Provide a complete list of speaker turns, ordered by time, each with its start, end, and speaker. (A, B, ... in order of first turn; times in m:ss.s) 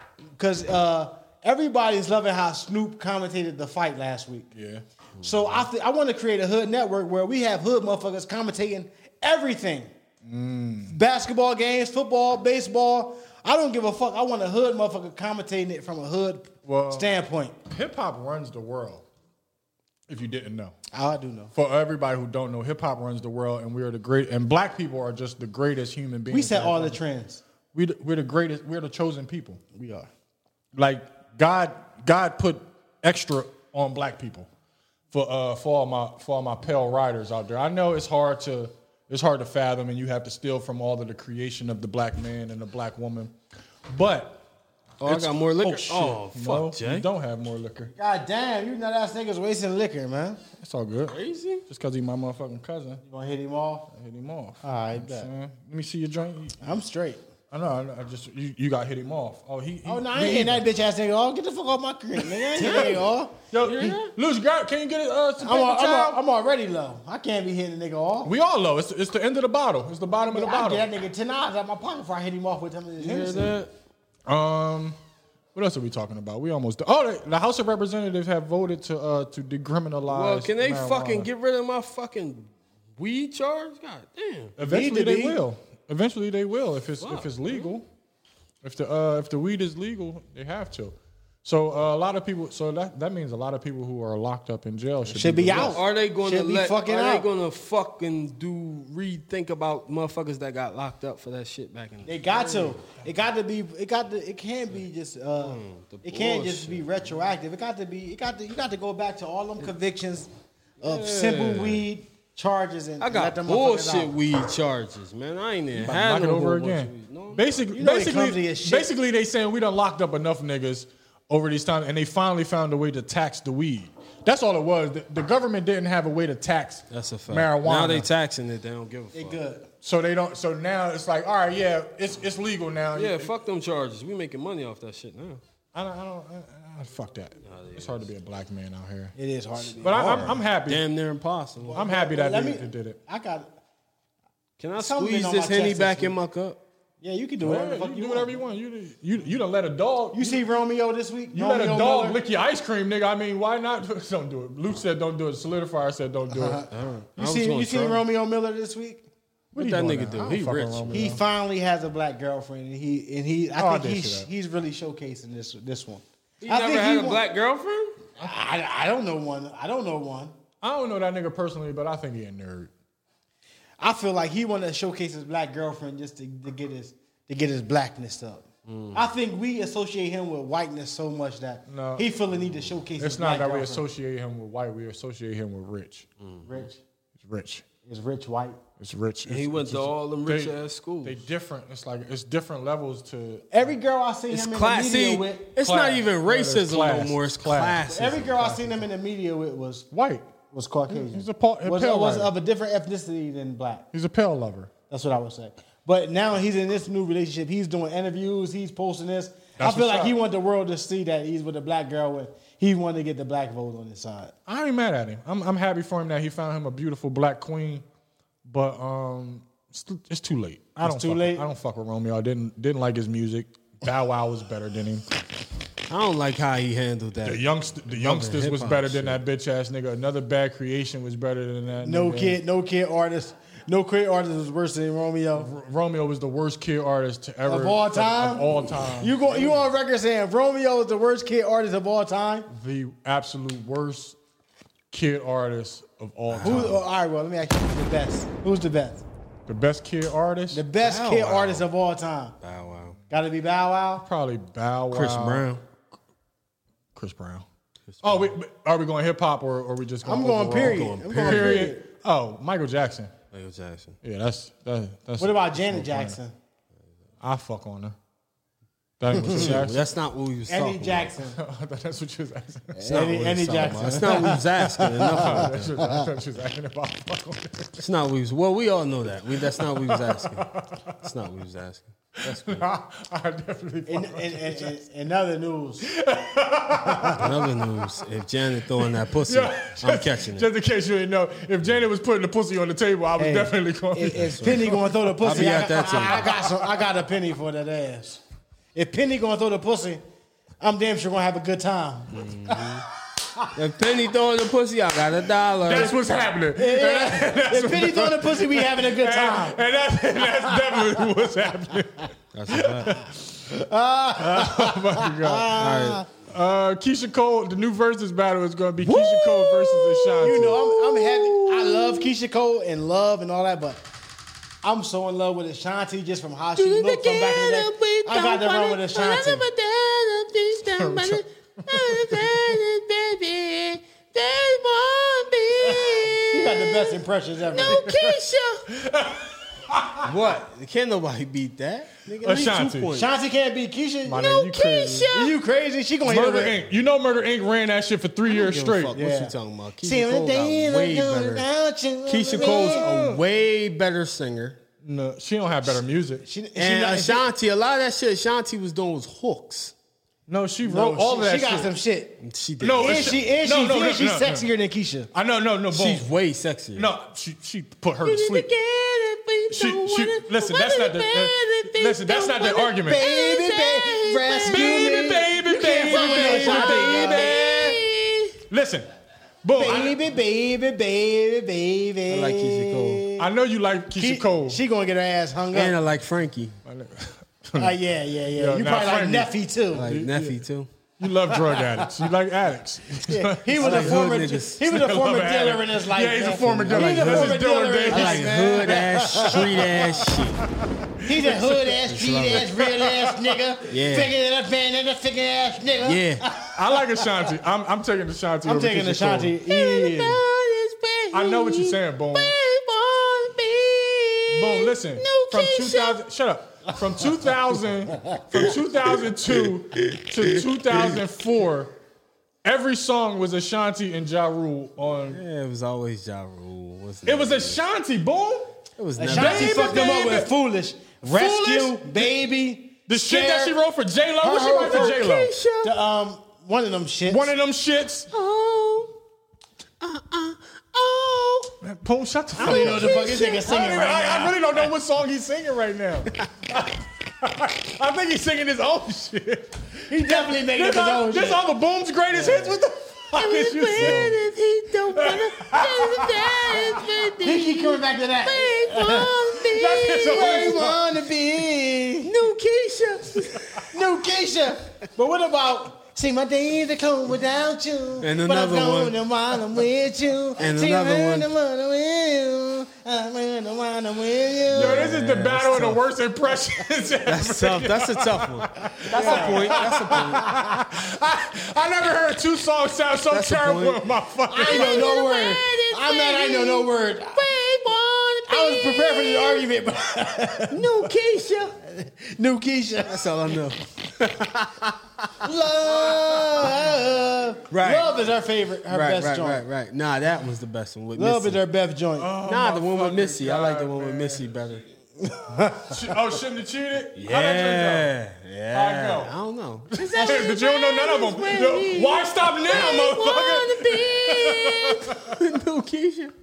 0:00.4-0:04.5 A
0:04.5-0:04.8 B
0:05.2-0:05.7 C
0:05.2-0:09.9 A
0:10.2-0:11.0 B
0:10.9-0:17.6 A
0:16.6-0:17.1 B
0:17.7-0:19.0 B
0:20.1-0:20.8 B
0:20.9-0:21.5 A
0:21.5-0:27.0 B
0:26.3-0:27.4 A
0:27.7-0:29.6 B
0:29.8-0:30.1 A
0:30.8-0:34.5 B
0:35.1-0:43.4 B
0:43.9-0:44.4 B
0:45.0-0:47.1 C
0:45.0-0:47.9 B
0:47.9-0:50.4 A
0:50.6-0:53.0 B
0:51.1-0:51.6 C
0:53.0-0:53.9 A
0:53.9-0:56.6 B
0:54.6-0:55.3 A
0:56.6-0:57.2 A
0:57.5-1:00.6 B
0:59.8-1:03.4 A
1:02.2-1:06.2 B
1:02.6-1:03.0 C
1:03.6-1:04.1 C
1:05.4-1:08.3 A
1:08.2-1:10.9 B
1:10.3-1:13.6 A
1:13.0-1:13.7 C
1:14.3-1:15.0 B
1:15.5-1:21.3 B
1:20.1-1:24.6 C
1:24.6-1:27.9 B
1:24.6-1:25.4 A
1:27.0-1:27.7 C
1:28.6-1:35.8 B
1:35.1-1:37.3 A
1:35.5-1:42.8 C
1:42.0-1:50.3 A
1:45.4-1:47.0 C
1:50.8-1:54.1 A
1:50.8-1:51.8 C
1:53.0-1:57.5 C
1:55.8-2:08.1 B
1:57.7-1:58.9 A
2:06.9-2:09.4 C
2:09.1-2:09.7 A
2:09.8-2:13.3 B
2:13.0-2:15.4 C
2:15.7-2:19.1 B
2:17.5-2:18.0 C
2:19.2-2:20.4 A
2:19.8-2:20.8 B
2:19.9-2:21.8 C
2:21.7-2:23.5 A
2:21.7-2:23.0 B
2:24.6-2:26.6 C
2:24.8-2:26.2 A
2:27.0-2:28.4 A
2:27.4-2:30.4 B
2:30.1-2:32.2 A
2:31.3-2:36.6 B
2:36.3-2:39.0 A
2:36.7-2:38.0 C
2:39.5-2:41.2 B
2:39.6-2:41.1 C
2:40.9-2:47.2 A
2:43.6-2:44.3 B
2:46.4-2:48.0 C
2:48.2-2:50.3 A
2:50.6-2:52.7 B
2:53.8-3:03.8 A
2:58.7-2:59.0 C
3:01.7-3:02.1 B
3:03.0-3:06.1 B
3:06.4-3:06.8 A
3:07.2-3:07.6 B
3:07.8-3:08.6 A
3:08.8-3:13.8 B
3:09.3-3:11.2 C
3:13.5-3:15.5 A
3:14.3-3:18.6 C
3:15.6-3:18.8 B
3:17.8-3:19.9 A
3:19.9-3:20.3 B
3:20.5-3:23.9 A
3:20.9-3:22.3 B
3:23.9-3:24.7 B
3:24.9-3:34.3 A
3:29.6-3:30.2 B
3:34.5-3:37.9 B
3:38.4-3:45.0 B
3:40.8-3:41.4 A
3:45.9-3:49.2 C
3:47.2-3:52.4 B
3:51.8-3:55.5 A
3:55.4-3:59.6 B
3:57.5-4:02.5 A
4:02.5-4:04.2 B
4:04.9-4:06.8 B
4:06.3-4:06.8 C
4:06.4-4:09.0 A
4:09.5-4:10.7 B
4:10.5-4:12.4 A
4:10.8-4:11.7 C
4:12.4-4:13.0 C
4:13.1-4:14.1 A
4:14.0-4:15.5 B
4:14.9-4:15.6 C
4:17.0-4:17.5 B
4:17.9-4:18.3 C
4:18.0-4:23.1 B
4:20.0-4:21.8 A
4:20.5-4:21.7 C
4:23.3-4:24.0 C
4:24.0-4:26.2 B
4:25.2-4:26.3 A
4:27.2-4:28.0 B
4:29.0-4:29.8 B
4:29.2-4:31.1 C
4:30.5-4:31.4 A
4:31.3-4:34.3 B
4:32.8-4:35.7 C
4:32.8-4:36.0 A
4:35.0-4:37.8 B
4:37.8-4:40.5 C
4:39.5-4:41.0 B
4:41.0-4:42.7 C
4:42.2-4:44.8 B
4:43.9-4:45.9 A
4:45.8-4:47.6 B
4:46.9-4:47.2 A
4:47.2-4:50.5 C
4:48.8-4:56.8 B
4:53.2-4:58.2 A
4:55.2-4:56.3 C
4:58.8-5:00.0 A
5:00.6-5:02.8 A
5:02.1-5:02.8 C
5:03.6-5:05.9 C
5:05.6-5:13.4 B
5:06.6-5:09.6 A
5:12.3-5:12.9 C
5:13.5-5:16.1 A
5:14.2-5:15.5 B
5:15.6-5:16.0 C
5:16.3-5:20.6 B
5:18.8-5:22.1 C
5:20.2-5:23.8 A
5:24.6-5:29.4 A
5:26.6-5:37.0 C
5:30.6-5:32.6 B
5:35.6-5:37.8 A
5:37.5-5:38.6 C
5:37.6-5:40.1 B
5:40.0-5:43.1 C
5:42.2-5:43.0 B
5:42.9-5:44.3 A
5:44.0-5:45.1 B
5:44.2-5:45.4 C
5:45.1-5:46.6 A
5:46.0-5:49.0 B
5:48.3-5:51.5 C
5:48.9-5:52.9 A
5:52.1-5:54.6 C
5:52.4-5:53.2 B
5:54.8-5:56.2 B
5:56.2-5:57.3 A
5:56.6-5:59.7 C
6:00.3-6:01.7 B
6:00.6-6:02.2 A
6:02.2-6:03.1 C
6:02.6-6:04.5 B
6:02.8-6:05.1 A
6:05.1-6:06.0 B
6:05.7-6:06.9 C
6:06.8-6:08.5 B
6:08.0-6:14.9 C
6:09.5-6:13.0 B
6:12.8-6:17.4 A
6:14.4-6:17.8 B
6:15.7-6:18.3 C
6:18.5-6:18.9 B
6:19.4-6:20.0 B
6:19.6-6:23.3 A
6:22.1-6:23.0 C
6:23.2-6:24.6 B
6:24.0-6:25.8 A
6:25.5-6:26.6 C
6:26.6-6:27.8 B
6:27.6-6:29.9 A
6:28.3-6:30.4 B
6:29.7-6:30.7 C
6:31.0-6:43.4 B
6:33.1-6:39.8 A
6:33.6-6:34.6 C
6:36.7-6:40.4 C
6:41.0-6:47.1 A
6:41.9-6:42.5 C
6:43.7-6:44.1 C
6:45.8-6:46.2 C
6:46.5-6:49.4 B
6:48.4-6:50.2 A
6:49.5-6:56.0 C
6:51.1-6:52.4 B
6:54.3-7:01.7 B
7:02.4-7:05.2 B
7:05.1-7:07.6 C
7:07.0-7:08.5 B
7:08.8-7:10.2 C
7:09.0-7:13.6 A
7:09.1-7:10.3 B
7:11.0-7:12.1 B
7:12.9-7:15.3 B
7:14.2-7:15.0 A
7:14.3-7:15.7 C
7:15.6-7:17.3 A
7:17.1-7:18.1 B
7:18.1-7:18.9 C
7:19.8-7:21.5 C
7:21.6-7:34.2 B
7:22.4-7:24.4 A
7:22.4-7:23.7 C
7:29.9-7:31.4 A
7:33.2-7:40.4 C
7:34.9-7:37.0 B
7:37.2-7:39.2 A
7:39.4-7:40.8 B
7:39.9-7:42.1 A
7:42.0-7:43.6 C
7:43.7-7:55.0 A
7:48.0-7:49.0 C
7:50.4-7:51.3 C
7:54.5-8:05.0 B
7:54.6-7:55.8 C
7:57.1-8:00.2 C
7:58.9-8:00.5 A
8:03.1-8:03.8 C
8:04.3-8:07.3 A
8:04.5-8:09.4 C
8:08.3-8:10.8 A
8:10.5-8:11.6 C
8:11.6-8:13.1 A
8:12.9-8:14.8 C
8:15.2-8:19.4 A
8:17.5-8:17.9 C
8:18.7-8:21.4 C
8:21.0-8:22.1 A
8:22.0-8:24.4 B
8:22.2-8:24.6 C
8:25.0-8:25.8 A
8:25.6-8:27.9 B
8:27.0-8:36.1 C
8:28.5-8:29.1 B
8:29.7-8:35.2 B